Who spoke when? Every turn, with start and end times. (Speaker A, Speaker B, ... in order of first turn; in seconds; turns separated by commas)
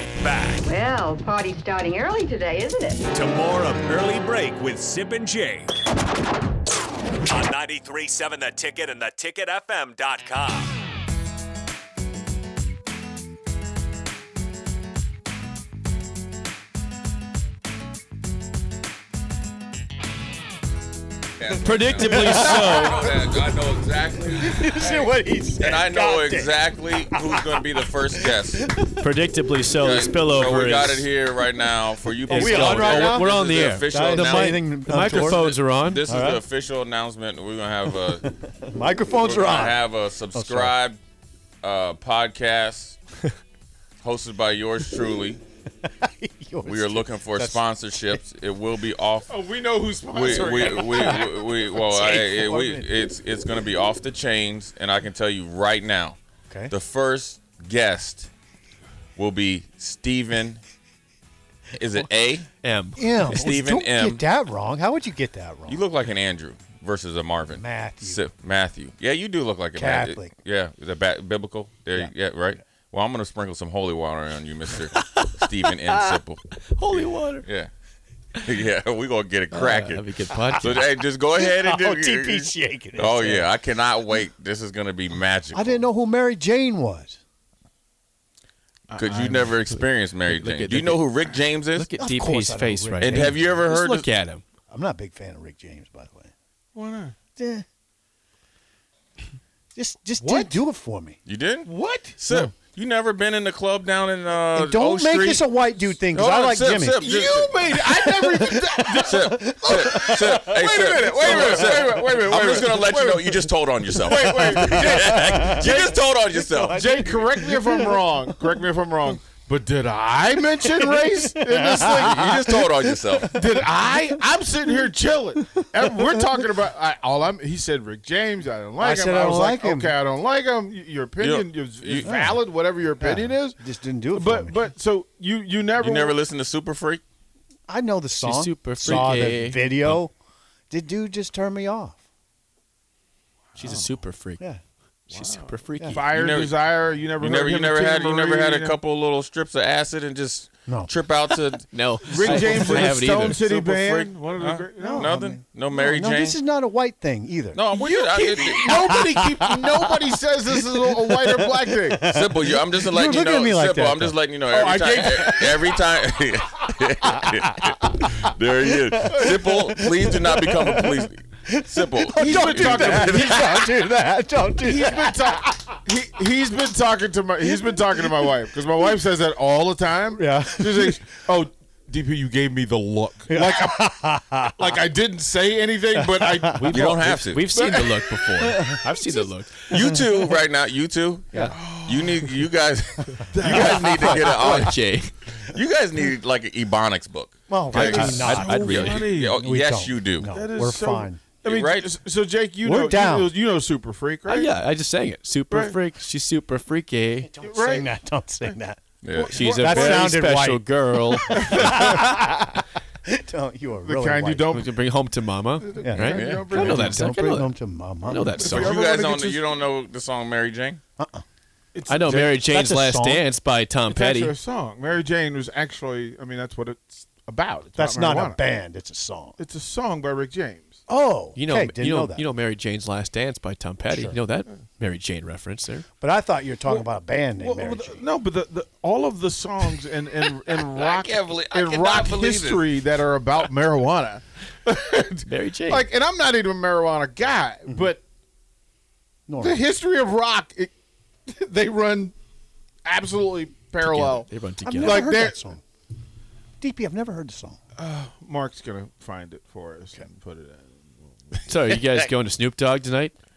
Speaker A: 0.2-0.7, Speaker B: 0.7-3.0, Speaker A: 3.1-5.7, Speaker A: 7.3-10.7, Speaker C: 21.4-28.6, Speaker D: 21.6-23.1, Speaker E: 22.0-23.2, Speaker E: 24.4-29.1, Speaker D: 29.0-31.1, Speaker C: 29.8-38.2, Speaker E: 32.2-36.4, Speaker D: 32.3-36.0, Speaker E: 37.9-40.7, Speaker C: 39.2-41.0, Speaker C: 41.6-43.0, Speaker C: 44.0-45.4, Speaker E: 45.8-48.2, Speaker C: 46.6-49.3, Speaker F: 49.3-51.3, Speaker C: 50.1-56.2, Speaker E: 50.4-52.9, Speaker C: 56.7-58.3, Speaker C: 59.2-60.6, Speaker C: 61.7-62.5, Speaker D: 62.6-63.3, Speaker E: 63.0-65.8, Speaker C: 63.2-64.2, Speaker C: 65.7-76.4, Speaker E: 67.5-68.2, Speaker E: 69.7-70.3, Speaker D: 74.9-77.5, Speaker C: 77.4-77.7, Speaker C: 78.4-85.8, Speaker D: 79.5-80.8, Speaker E: 81.3-83.5, Speaker E: 85.5-87.2, Speaker F: 88.9-89.8, Speaker C: 89.0-91.9, Speaker D: 90.3-91.1, Speaker D: 91.7-94.4, Speaker E: 92.0-93.5, Speaker C: 93.0-94.1, Speaker E: 94.7-96.3, Speaker F: 96.7-97.2, Speaker E: 97.3-97.6, Speaker E: 99.7-101.2, Speaker F: 100.2-100.6, Speaker C: 101.2-105.5, Speaker F: 101.7-102.2, Speaker E: 104.5-107.0, Speaker C: 106.0-107.6, Speaker F: 107.0-115.6, Speaker E: 107.8-112.0, Speaker C: 109.1-116.9, Speaker E: 113.9-118.5, Speaker F: 116.7-122.6, Speaker E: 120.5-124.9, Speaker C: 121.9-123.4, Speaker F: 123.2-133.6, Speaker E: 125.4-126.4, Speaker E: 128.8-129.9, Speaker C: 131.2-132.2, Speaker E: 132.0-132.4, Speaker E: 133.0-134.6, Speaker F: 134.1-136.2, Speaker C: 135.8-137.0, Speaker E: 137.7-140.1, Speaker D: 138.2-140.0, Speaker E: 140.7-142.0, Speaker F: 143.5-143.9, Speaker D: 143.6-144.4, Speaker D: 145.1-146.1, Speaker F: 145.1-148.8, Speaker C: 146.1-146.6, Speaker C: 147.2-156.4, Speaker E: 150.7-150.9, Speaker D: 151.7-153.4, Speaker F: 152.1-155.1, Speaker E: 154.8-157.6, Speaker C: 157.5-158.9, Speaker F: 157.7-162.1, Speaker E: 158.5-164.2, Speaker C: 162.1-173.7, Speaker F: 164.5-165.7, Speaker E: 165.0-165.7, Speaker E: 167.0-175.7, Speaker F: 169.1-169.4, Speaker F: 172.1-173.6, Speaker F: 174.6-183.9, Speaker E: 177.4-178.8, Speaker E: 180.2-181.0, Speaker E: 183.3-184.8, Speaker F: 184.5-186.8, Speaker E: 185.9-186.7, Speaker D: 186.5-189.5, Speaker C: 186.7-187.4, Speaker F: 187.5-188.6, Speaker E: 188.4-188.9, Speaker C: 189.7-194.8, Speaker E: 189.7-190.1, Speaker F: 191.5-192.4, Speaker F: 193.3-194.5, Speaker D: 193.4-195.1, Speaker C: 195.4-200.3, Speaker E: 197.5-201.2, Speaker D: 197.7-199.0, Speaker F: 198.6-199.4, Speaker F: 200.2-204.5, Speaker C: 201.4-201.9, Speaker E: 202.6-203.3, Speaker D: 204.3-207.3, Speaker F: 205.5-205.8, Speaker E: 207.2-208.8, Speaker F: 207.4-207.9, Speaker C: 209.0-210.0, Speaker F: 209.1-210.0, Speaker D: 209.3-211.8, Speaker E: 209.5-214.6, Speaker F: 211.2-212.2, Speaker F: 213.8-214.7, Speaker D: 214.5-217.5, Speaker F: 215.6-217.0, Speaker E: 215.8-218.4, Speaker C: 216.1-216.4, Speaker D: 218.0-218.7, Speaker F: 218.4-219.5, Speaker C: 218.4-220.8, Speaker E: 221.0-221.2, Speaker F: 221.7-222.4, Speaker D: 221.9-224.3, Speaker E: 222.4-223.2, Speaker F: 223.9-228.4, Speaker E: 227.8-229.4, Speaker F: 229.4-230.8, Speaker E: 230.9-232.2, Speaker D: 231.3-235.8, Speaker E: 233.9-234.2, Speaker E: 236.0-238.0, Speaker F: 237.4-248.0, Speaker C: 240.6-242.7, Speaker D: 245.2-245.8, Speaker E: 249.3-249.6, Speaker F: 249.4-250.7, Speaker F: 251.3-252.1, Speaker F: 252.8-254.3, Speaker D: 253.8-255.1, Speaker E: 254.6-255.6, Speaker F: 254.8-255.4, Speaker E: 256.6-257.6, Speaker F: 257.8-261.8, Speaker D: 261.5-263.1